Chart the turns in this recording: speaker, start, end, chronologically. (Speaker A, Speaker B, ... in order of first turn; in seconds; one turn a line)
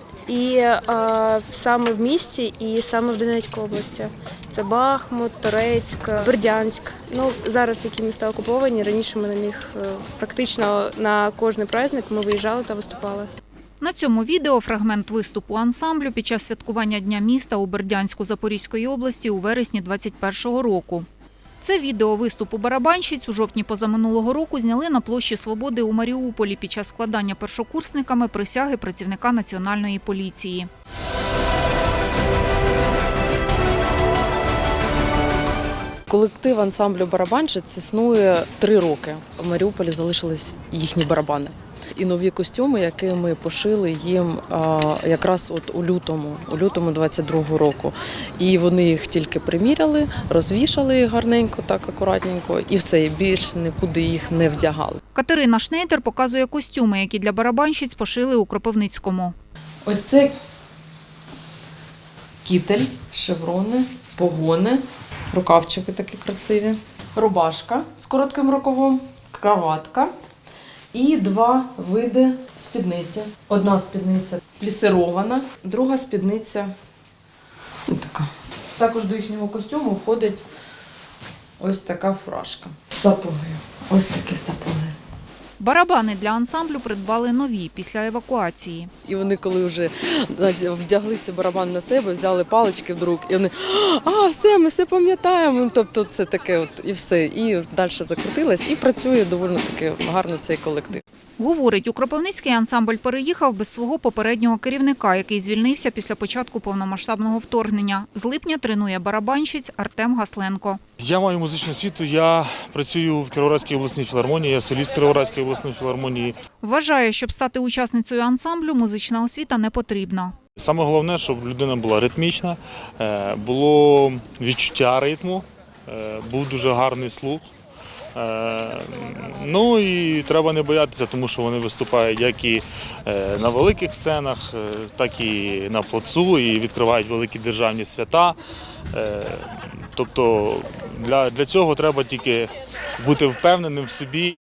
Speaker A: 0.3-13.3
Speaker B: 13.8-21.1
Speaker B: 21.6-30.7
Speaker C: 36.1-55.0
Speaker B: 55.1-59.3
Speaker C: 59.8-60.3
Speaker C: 62.4-70.1
Speaker C: 70.9-76.7
Speaker C: 77.9-80.4
Speaker C: 81.6-85.0
Speaker B: 85.6-88.9
Speaker C: 89.0-101.0
Speaker B: 101.4-110.8
Speaker D: 111.0-116.4
Speaker B: 116.6-120.3
Speaker D: 120.6-127.5
Speaker D: 128.1-138.4
Speaker D: 138.9-144.3